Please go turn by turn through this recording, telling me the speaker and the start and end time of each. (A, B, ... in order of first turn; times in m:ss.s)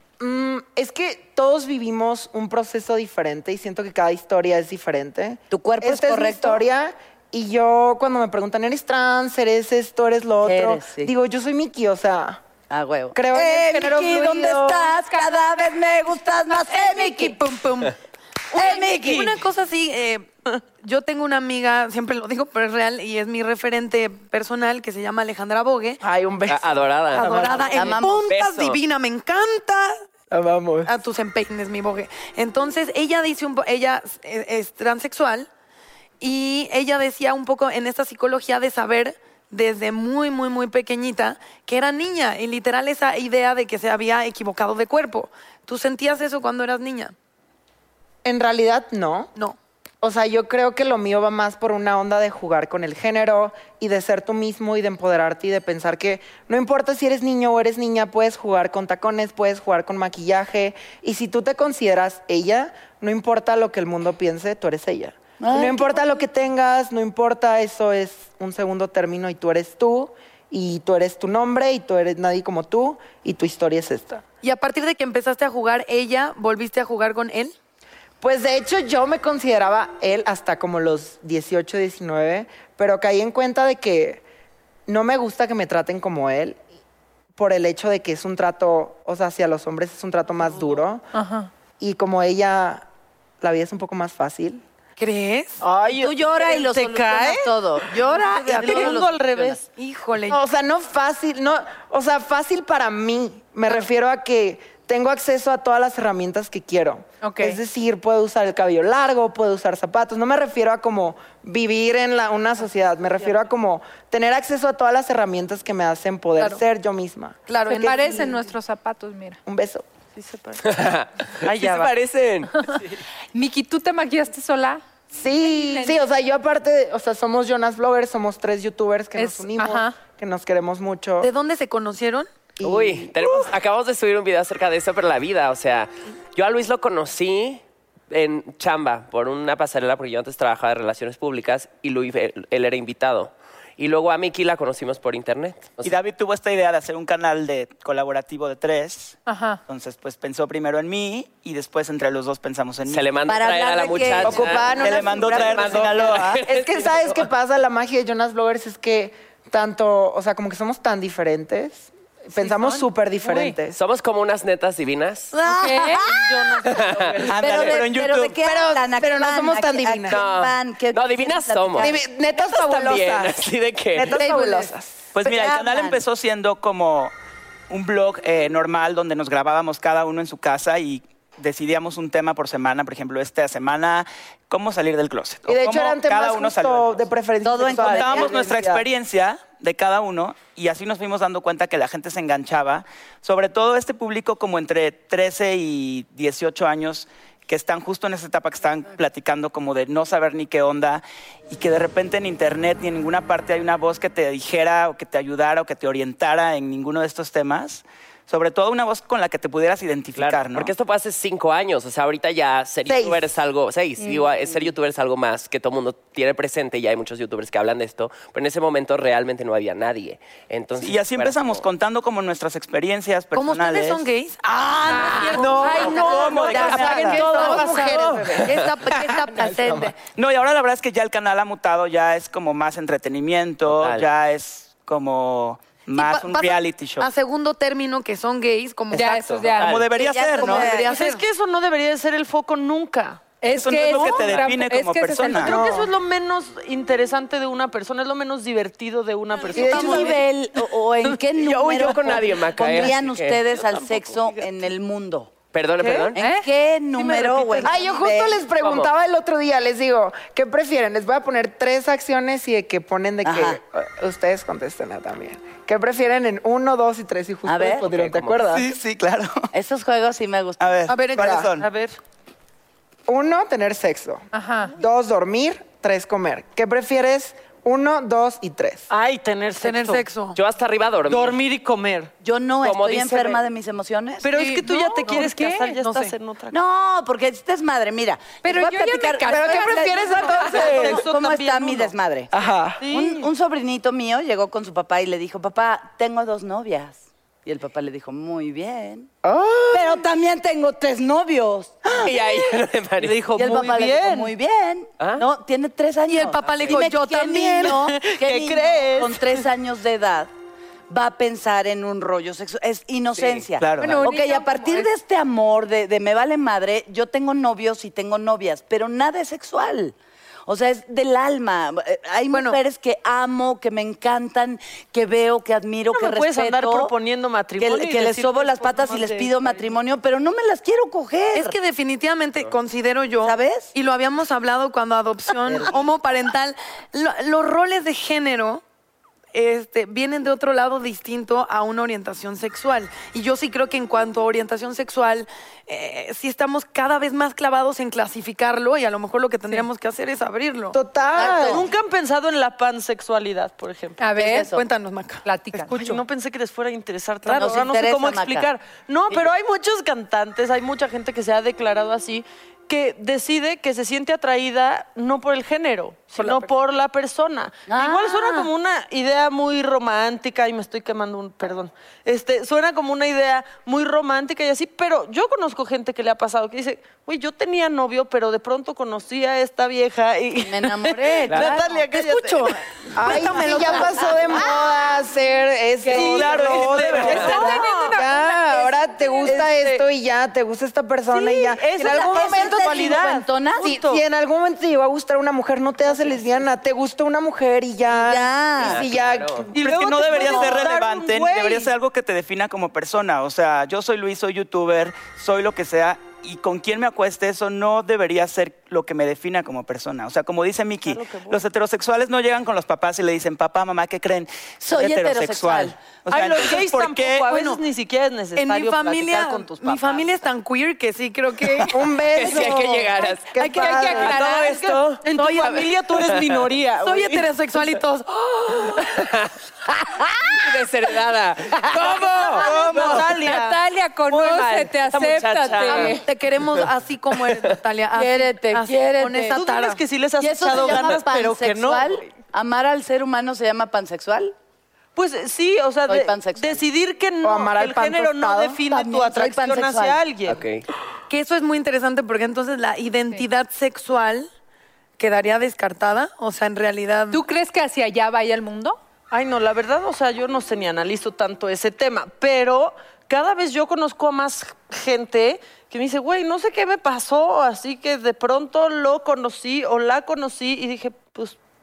0:00.2-0:12.4 A
0:05.5-0:06.6 B
0:10.4-0:11.1 B
0:12.7-0:17.4 B
0:13.1-0:15.0 A
0:15.1-0:15.4 C
0:16.6-0:18.0 D
0:18.5-0:19.4 B
0:18.5-0:26.0 D
0:26.0-0:27.9 A
0:26.5-0:28.8 E
0:27.2-0:29.9 D
0:27.7-0:28.2 B
0:30.3-0:30.9 A
0:30.9-0:35.5 D
0:36.2-0:47.2 D
0:48.2-0:49.3 A
0:50.0-1:14.2 A
1:05.4-1:06.2 B
1:14.4-1:17.5 D
1:18.2-1:24.2 A
1:24.9-1:26.6 A
1:27.4-1:31.1 A
1:31.1-1:31.5 C
1:31.8-1:32.9 A
1:33.4-1:34.6 A
1:35.0-1:35.6 D
1:35.6-1:39.6 F
1:35.9-1:39.6 B
1:38.3-1:39.2 D
1:39.7-1:40.4 D
1:40.3-1:58.4 A
1:47.2-1:47.6 C
1:57.5-1:58.2 D
1:57.7-1:59.4 C
1:59.5-1:59.9 A
2:00.2-2:00.8 F
2:00.7-2:02.7 E
2:01.4-2:02.0 F
2:03.3-2:04.8 C
2:05.1-2:11.3 A
2:05.4-2:06.0 C
2:09.2-2:10.0 C
2:11.2-2:12.3 D
2:12.6-2:13.5 A
2:12.6-2:25.9 E
2:25.8-2:33.1 G
2:29.3-2:29.6 C
2:32.9-2:37.3 E
2:33.3-2:36.2 B
2:34.2-2:43.8 A
2:34.7-2:36.4 G
2:42.4-2:42.8 C
2:43.7-2:45.3 E
2:45.4-2:46.8 B
2:45.5-2:47.7 F
2:45.6-2:46.0 C
2:46.7-2:47.2 E
2:47.3-2:48.4 G
2:47.4-2:52.0 B
2:48.4-2:50.2 A
2:50.1-2:54.3 E
2:51.8-2:55.1 A
2:54.2-2:54.6 B
2:55.1-2:57.1 G
2:55.2-2:56.0 B
2:57.7-3:07.0 G
3:05.5-3:08.8 A
3:07.4-3:08.4 B
3:07.7-3:30.7 G
3:30.2-3:41.7 E
3:32.9-3:33.3 A
3:40.8-3:44.1 G
3:43.3-3:50.0 D
3:44.9-3:45.3 C
3:44.9-3:48.4 F
3:45.3-3:49.9 A
3:45.5-3:47.5 G
3:50.1-3:57.1 G
3:53.7-3:54.1 E
3:55.9-3:59.2 D
3:58.9-3:59.8 C
3:58.9-4:00.7 G
3:59.6-3:59.9 E
4:00.0-4:01.0 B
4:00.4-4:01.2 D
4:00.4-4:03.2 F
4:03.4-4:05.7 C
4:03.5-4:05.6 G
4:05.4-4:10.3 F
4:05.5-4:05.9 A
4:09.5-4:09.8 D
4:09.5-4:15.3 B
4:09.5-4:10.2 A
4:11.4-4:13.4 E
4:11.8-4:12.9 F
4:13.5-4:14.7 F
4:15.5-4:16.2 E
4:15.8-4:16.2 F
4:16.1-4:18.4 B
4:16.2-4:16.5 C
4:16.9-4:17.9 F
4:17.6-4:28.7 A
4:18.6-4:18.9 E
4:23.2-4:23.6 B
4:27.5-4:27.9 B
4:27.9-4:28.4 E
4:28.5-4:29.5 G
4:29.5-4:30.6 B
4:30.6-4:31.7 G
4:30.9-4:31.4 D
4:31.1-4:31.5 A
4:31.6-4:32.0 F
4:33.1-4:38.9 A
4:34.3-4:34.7 C
4:38.9-4:40.1 F
4:39.6-4:40.4 D
4:40.4-4:41.4 E
4:41.1-4:42.1 F
4:42.2-4:44.3 B
4:42.6-4:43.4 E
4:44.2-4:46.6 F
4:44.3-4:46.1 D
4:45.0-4:45.7 C
4:46.5-4:52.3 B
4:48.4-4:50.7 C
4:49.3-4:51.1 A
4:50.2-4:51.9 F
4:52.3-4:52.8 A
4:52.8-4:53.3 F
4:52.9-4:59.1 B
4:59.2-5:00.1 A
4:59.7-5:02.2 B
5:02.0-5:03.2 E
5:03.0-5:04.3 F
5:03.4-5:10.3 B
5:05.0-5:05.2 E
5:06.1-5:07.8 D
5:07.5-5:09.4 F
5:10.9-5:20.0 B
5:13.2-5:13.4 E
5:13.6-5:14.1 G
5:13.8-5:14.9 C
5:20.5-5:26.9 B
5:22.3-5:22.6 D
5:25.9-5:29.8 F
5:27.6-5:31.6 B
5:31.3-5:38.6 D
5:33.2-5:33.7 B
5:35.4-5:35.8 B
5:39.3-5:50.8 D
5:50.7-5:51.7 A
5:51.1-5:51.7 B
5:51.2-5:54.0 F
5:54.0-5:54.5 C
5:54.2-5:54.6 B
5:54.4-5:55.2 D
5:55.2-5:56.0 C
5:55.6-6:22.6 F
5:57.3-5:58.5 B
6:06.2-6:06.4 B
6:07.7-6:08.5 B
6:20.4-6:22.2 B
6:21.3-6:21.6 E
6:21.9-6:22.4 D
6:22.9-6:39.6 A
6:23.0-6:24.4 D
6:23.2-6:23.8 B
6:23.3-6:23.8 F
6:25.9-6:28.0 F
6:25.9-6:27.3 G
6:27.3-6:27.6 B
6:27.3-6:28.6 C
6:27.4-6:27.8 D
6:29.3-6:29.8 F
6:31.1-6:34.0 F
6:31.8-6:33.7 B
6:37.9-6:38.8 B
6:38.6-6:39.5 E
6:39.6-6:41.7 F
6:39.6-6:57.4 G
6:40.1-6:40.6 B
6:50.9-6:51.4 F
6:54.6-6:55.8 B
6:56.1-7:00.1 F
6:57.3-6:57.6 D
6:58.4-7:01.7 D
7:01.7-7:04.2 A
7:02.1-7:03.3 E
7:03.6-7:04.6 C
7:03.7-7:07.3 F
7:03.9-7:06.2 E
7:06.8-7:08.7 D
7:08.8-7:09.3 E
7:10.2-7:13.5 E
7:11.7-7:13.6 F
7:12.4-7:13.2 G
7:13.2-7:16.0 C
7:14.1-7:16.0 E
7:15.7-7:19.8 D
7:17.9-7:19.4 B
7:19.3-7:22.0 F
7:20.2-7:24.3 B
7:25.0-7:30.4 F
7:25.9-7:26.6 B
7:27.2-7:28.6 A
7:28.7-7:30.0 B
7:30.3-7:30.7 E
7:31.1-7:34.3 D
7:35.0-7:37.2 D
7:37.1-7:38.8 C
7:39.1-7:51.4 F